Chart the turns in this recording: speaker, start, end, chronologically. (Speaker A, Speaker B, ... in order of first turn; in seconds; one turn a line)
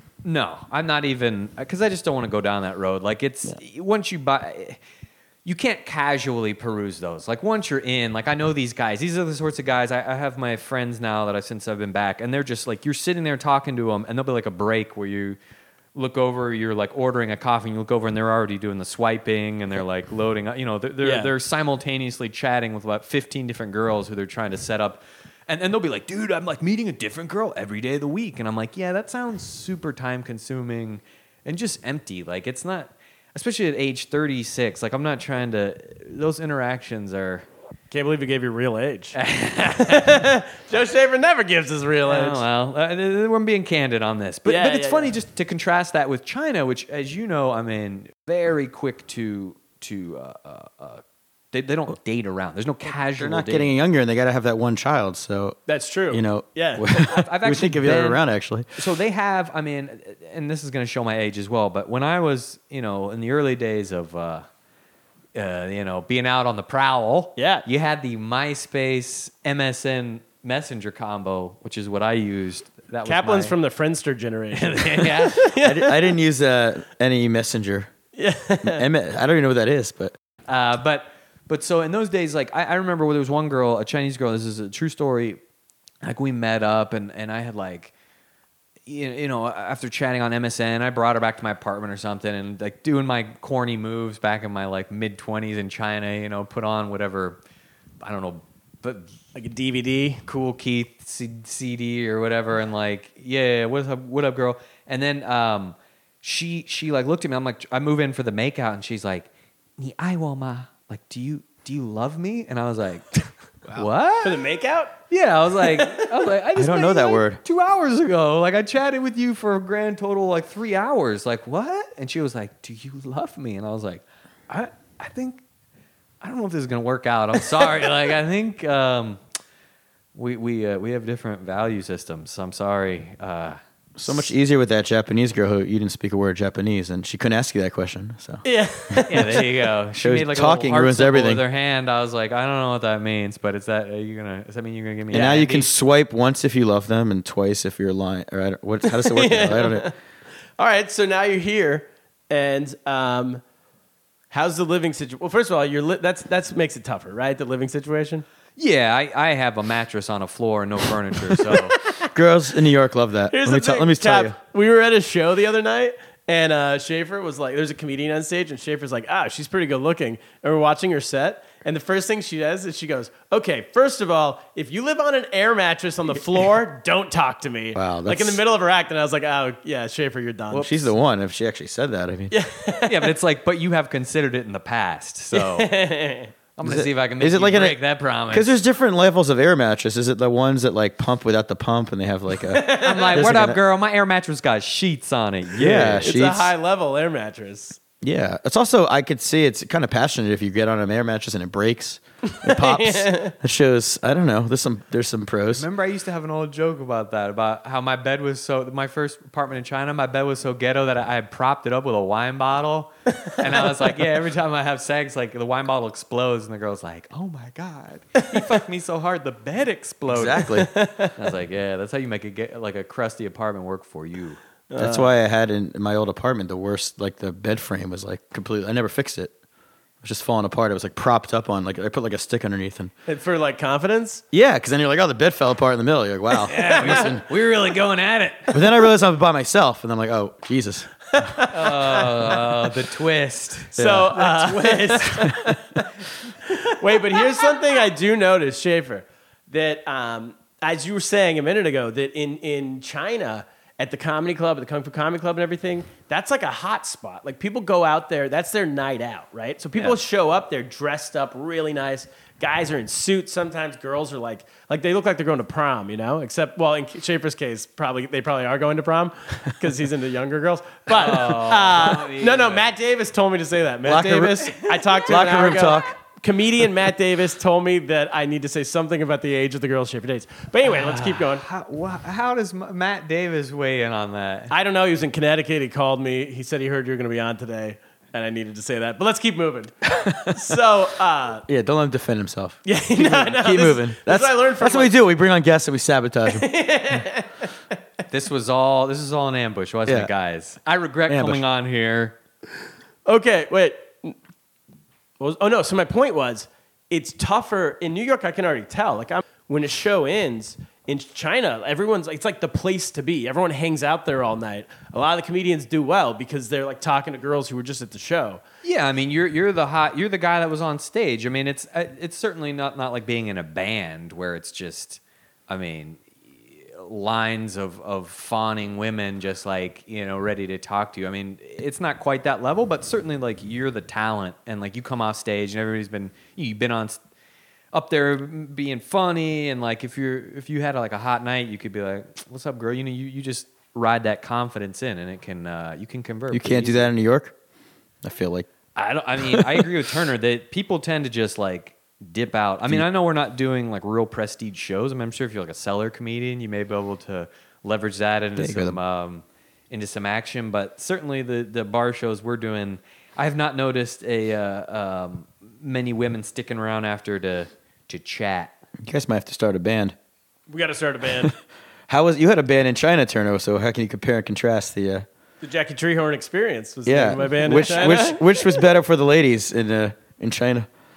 Speaker A: 0.2-4.8
Speaker A: 5.4-15.4
Speaker A: 15.9-37.5
Speaker B: 21.0-21.3
Speaker B: 37.9-42.4
Speaker A: 39.1-40.2
Speaker A: 42.0-53.7
Speaker B: 44.4-45.1
Speaker C: 53.1-55.6
Speaker B: 55.7-56.9
Speaker C: 56.1-58.7
Speaker A: 57.0-58.2
Speaker A: 58.8-64.4
Speaker A: 65.3-73.5
Speaker B: 67.4-67.7
Speaker B: 73.0-76.0
Speaker A: 74.5-75.5
Speaker C: 75.6-77.9
Speaker B: 78.2-78.8
Speaker C: 78.6-80.1
Speaker A: 80.5-85.4
Speaker A: 86.0-87.9
Speaker A: 88.9-97.4
Speaker A: 98.0-99.1
Speaker B: 99.3-100.2
Speaker A: 100.2-114.5
Speaker B: 114.2-114.9
Speaker A: 115.1-125.4
Speaker B: 115.6-116.1
Speaker C: 116.5-117.4
Speaker A: 126.2-129.2
Speaker A: 130.1-134.2
Speaker C: 133.9-139.1
Speaker B: 138.4-139.4
Speaker A: 139.1-145.7
Speaker C: 139.9-141.4
Speaker C: 145.1-149.9
Speaker B: 145.1-145.4
Speaker B: 148.8-149.9
Speaker B: 150.6-153.4
Speaker B: 154.3-158.2
Speaker A: 158.6-161.8
Speaker C: 162.1-164.3
Speaker B: 163.3-180.9
Speaker C: 177.7-178.4
Speaker C: 180.5-182.3
Speaker B: 182.3-183.1
Speaker A: 182.8-185.7
Speaker B: 185.3-186.3
Speaker A: 186.6-188.5
Speaker C: 186.6-187.8
Speaker C: 188.3-193.6
Speaker B: 192.5-193.2
Speaker A: 192.8-196.0
Speaker C: 195.6-196.5
Speaker B: 195.6-197.8
Speaker C: 198.0-205.7
Speaker B: 202.2-203.3
Speaker A: 205.5-220.5
Speaker C: 220.1-220.7
Speaker B: 220.5-221.1
Speaker A: 221.2-224.4
Speaker B: 224.7-225.1
Speaker C: 224.8-229.3
Speaker C: 230.0-232.9
Speaker B: 233.1-234.2
Speaker C: 234.3-237.2
Speaker A: 236.5-238.6
Speaker B: 236.6-237.0
Speaker C: 238.5-241.3
Speaker B: 241.1-242.5
Speaker A: 241.5-245.3
Speaker B: 243.7-245.8
Speaker C: 243.8-244.1
Speaker C: 245.1-245.6
Speaker B: 246.4-281.4
Speaker A: 270.9-272.7
Speaker C: 273.8-275.9
Speaker A: 280.6-284.5
Speaker B: 284.5-291.4
Speaker C: 289.9-290.4
Speaker C: 291.5-296.5
Speaker B: 292.6-294.9
Speaker B: 296.3-297.4
Speaker A: 298.1-302.1
Speaker C: 301.1-301.4
Speaker B: 303.1-304.1
Speaker B: 305.2-318.4
Speaker A: 318.6-337.0
Speaker A: 337.7-346.9
Speaker C: 346.3-347.3
Speaker C: 348.0-348.5
Speaker A: 348.8-368.5
Speaker C: 349.2-349.6
Speaker C: 358.4-358.8
Speaker C: 368.8-369.9
Speaker B: 370.5-371.3
Speaker C: 371.9-375.1
Speaker B: 375.4-378.6
Speaker C: 376.9-380.7